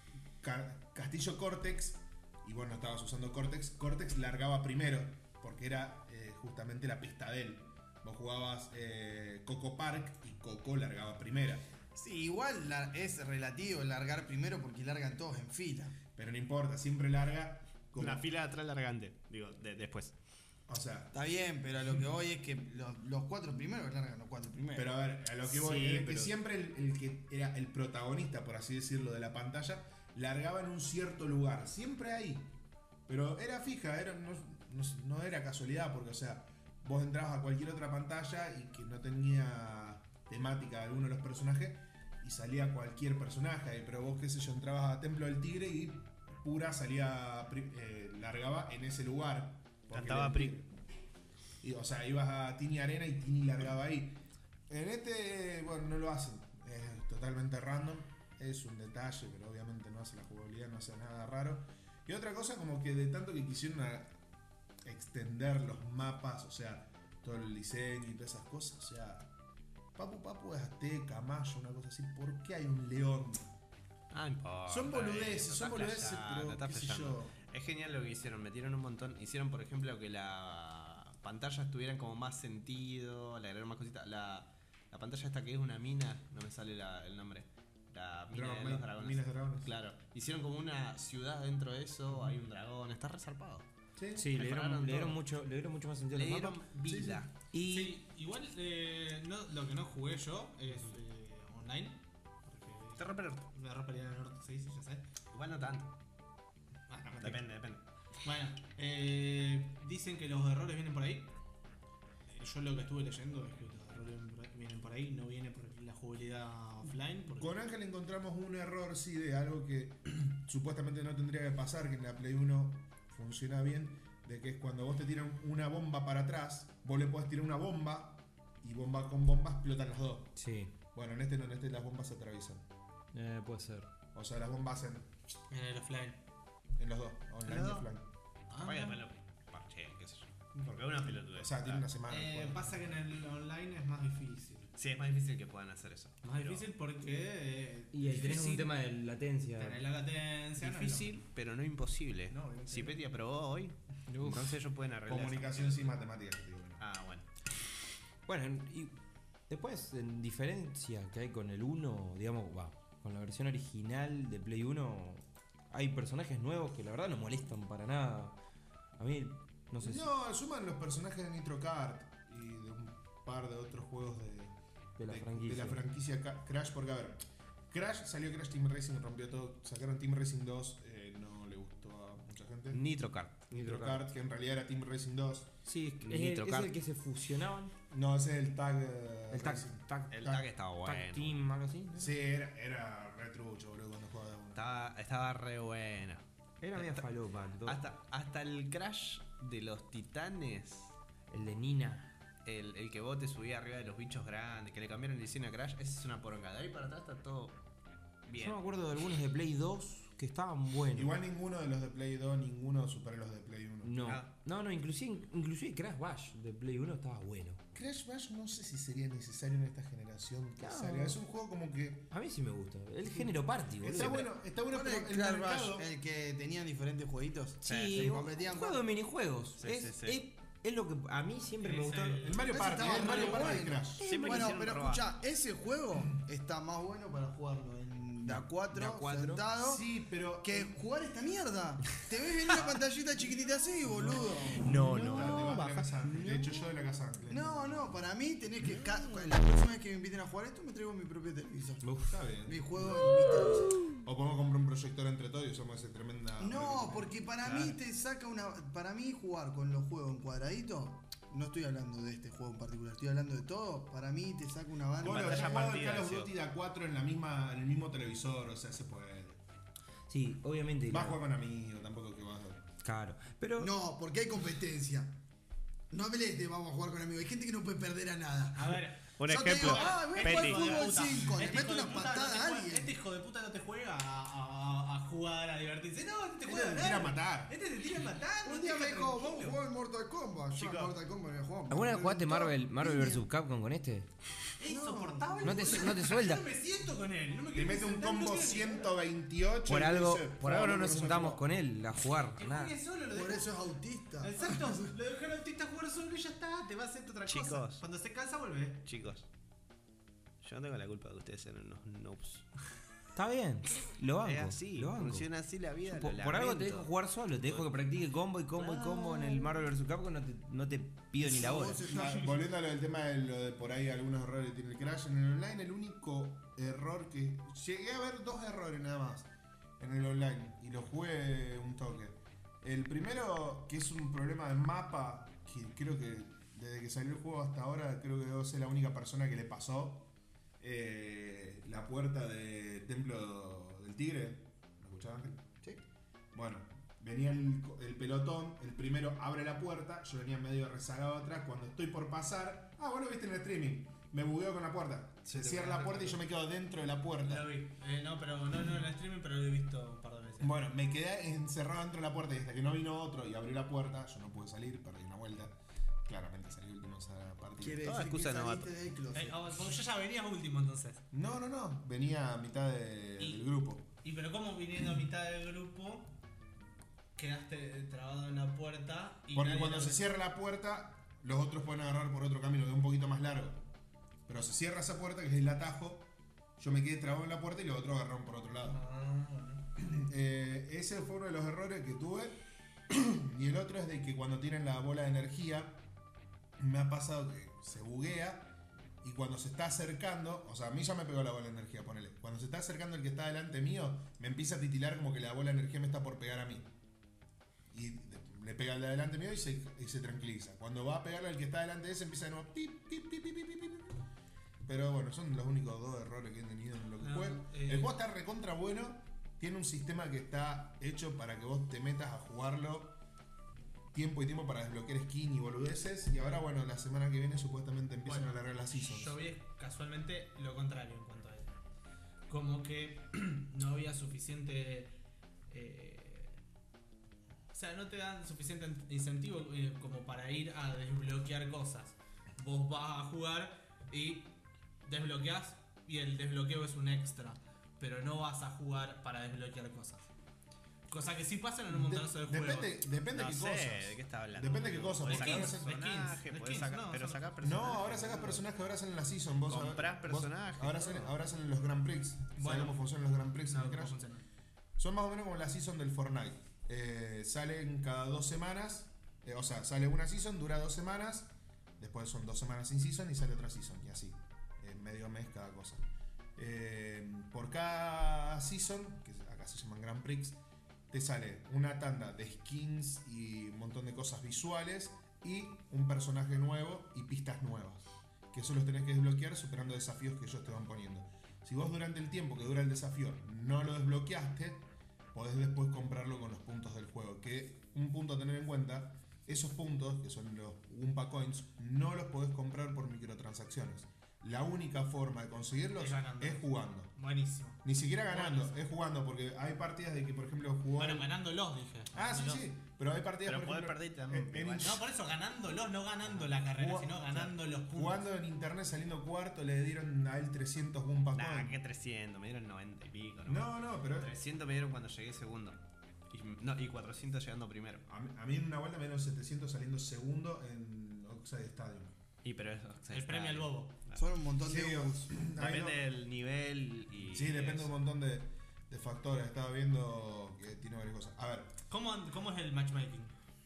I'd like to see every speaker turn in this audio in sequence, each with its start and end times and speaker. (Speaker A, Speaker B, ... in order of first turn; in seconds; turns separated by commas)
Speaker A: 0.4-11.7, Speaker B: 11.9-16.0, Speaker A: 16.1-18.2, Speaker C: 18.0-20.1, Speaker A: 20.7-21.1, Speaker B: 21.1-24.9, Speaker A: 24.7-32.5, Speaker C: 25.4-26.3, Speaker A: 33.1-50.7, Speaker C: 49.9-50.6, Speaker A: 51.6-64.2, Speaker A: 64.8-69.3, Speaker A: 70.0-73.5, Speaker C: 74.1-93.7, Speaker A: 74.7-77.3, Speaker A: 88.3-89.7, Speaker A: 94.0-94.3, Speaker D: 94.2-96.7, Speaker C: 94.3-95.2, Speaker C: 96.1-97.3, Speaker A: 96.9-97.2, Speaker D: 97.5-98.0, Speaker E: 97.6-105.1, Speaker C: 103.0-103.5, Speaker C: 105.3-105.9, Speaker E: 106.9-107.5, Speaker C: 107.2-107.8, Speaker E: 108.2-111.3, Speaker E: 112.3-117.6, Speaker A: 117.3-130.4, Speaker D: 130.4-130.7, Speaker A: 130.9-132.7, Speaker D: 133.1-133.9, Speaker A: 134.1-135.1, Speaker E: 135.5-136.2, Speaker A: 136.8-138.1, Speaker E: 138.5-139.0, Speaker C: 138.6-141.9, Speaker A: 140.6-142.7, Speaker E: 142.1-144.7, Speaker C: 144.8-146.7, Speaker E: 146.2-148.7, Speaker D: 147.9-149.8, Speaker E: 149.6-151.2, Speaker C: 150.6-156.0, Speaker E: 152.3-153.0, Speaker D: 154.1-154.6, Speaker A: 155.1-156.8, Speaker C: 156.8-157.3, Speaker D: 158.3-159.0, Speaker D: 159.5-168.3, Speaker D: 169.0-170.1, Speaker A: 169.8-174.5, Speaker D: 175.0-175.8, Speaker A: 175.1-182.8, Speaker C: 182.7-183.5, Speaker D: 183.5-184.0, Speaker A: 183.5-185.6, Speaker D: 185.7-187.7, Speaker C: 186.0-186.7, Speaker A: 187.9-189.9, Speaker D: 189.3-192.2, Speaker C: 190.1-191.4, Speaker A: 191.9-194.6, Speaker C: 194.5-196.2, Speaker D: 196.6-197.8, Speaker C: 196.7-197.1, Speaker C: 197.6-200.9, Speaker D: 201.3-202.1, Speaker C: 202.4-207.6, Speaker C: 208.2-208.6, Speaker D: 208.4-211.1, Speaker A: 210.9-214.0, Speaker D: 213.8-217.6, Speaker C: 214.0-214.3, Speaker A: 217.8-222.1, Speaker D: 220.6-221.2, Speaker D: 222.1-224.3, Speaker A: 223.8-225.9, Speaker C: 224.0-224.3, Speaker B: 224.7-228.9, Speaker D: 227.6-232.3, Speaker C: 227.6-228.1, Speaker C: 229.6-230.2, Speaker E: 231.6-233.6, Speaker A: 232.2-234.1, Speaker B: 232.5-239.8, Speaker C: 234.0-235.1, Speaker D: 234.0-234.6, Speaker D: 238.2-239.5, Speaker A: 239.6-240.7, Speaker B: 240.4-244.7, Speaker C: 244.6-246.0, Speaker D: 244.7-245.5, Speaker A: 244.8-248.0, Speaker D: 246.2-246.6, Speaker B: 247.3-251.9, Speaker D: 251.8-252.2, Speaker A: 252.1-252.8, Speaker B: 252.4-253.8, Speaker A: 253.9-257.1, Speaker B: 256.4-265.7, Speaker C: 257.4-257.8, Speaker A: 265.0-269.4, Speaker C: 265.0-266.3, Speaker D: 270.1-271.2, Speaker A: 270.9-272.7, Speaker D: 272.8-273.7, Speaker B: 273.6-275.2, Speaker B: 275.9-282.9, Speaker E: 278.5-289.6, Speaker C: 279.2-281.1, Speaker A: 286.5-287.5, Speaker B: 288.4-293.2, Speaker C: 290.6-291.0, Speaker D: 291.7-294.1, Speaker E: 294.6-298.9, Speaker B: 294.7-295.9, Speaker D: 295.4-296.5, Speaker A: 297.5-301.4, Speaker D: 299.7-302.8, Speaker E: 302.4-303.5, Speaker B: 303.1-304.8, Speaker E: 304.2-308.8, Speaker C: 307.3-307.8, Speaker C: 308.9-309.3, Speaker C: 310.4-312.5, Speaker D: 313.1-315.3, Speaker C: 314.2-316.9, Speaker D: 315.9-321.9, Speaker C: 318.6-319.6, Speaker B: 321.2-322.4, Speaker A: 321.9-345.5, Speaker A: 346.3-357.5, Speaker E: 355.4-356.1, Speaker E: 357.2-360.6, Speaker A: 360.4-368.0, Speaker B: 367.6-369.4, Speaker C: 367.8-368.7, Speaker E: 369.1-371.1, Speaker A: 371.1-373.9, Speaker E: 373.2-373.5, Speaker E: 374.0-376.1, Speaker E: 377.2-380.1, Speaker A: 379.3-383.6, Speaker A: 384.3-388.8, Speaker E: 388.7-389.6, Speaker A: 389.8-395.8, Speaker A: 396.6-406.7, Speaker A: 407.7-414.0, Speaker A: 414.6-423.0, Speaker E: 417.0-417.9, Speaker A: 423.9-429.2, Speaker E: 428.1-431.5, Speaker E: 432.3-434.9, Speaker E: 435.5-436.4, Speaker E: 437.5-450.1, Speaker E: 450.9-452.8, Speaker A: 451.7-455.7, Speaker C: 453.1-458.4, Speaker E: 455.0-457.6, Speaker A: 457.4-464.0, Speaker C: 459.5-461.1, Speaker E: 462.4-462.8, Speaker E: 463.5-464.2, Speaker A: 464.8-475.8, Speaker A: 476.4-480.4, Speaker A: 480.9-506.9, Speaker E: 505.8-508.6, Speaker A: 507.6-511.1, Speaker E: 510.8-512.5, Speaker A: 511.9-514.8, Speaker C: 513.2-514.8, Speaker E: 514.6-518.0, Speaker A: 516.2-521.6, Speaker C: 521.1-527.9, Speaker A: 523.3-524.1, Speaker A: 527.9-532.0, Speaker C: 532.2-534.0, Speaker E: 532.9-533.8, Speaker B: 534.0-535.1, Speaker A: 534.4-535.8, Speaker C: 535.4-537.7, Speaker A: 537.1-541.5, Speaker E: 541.7-543.1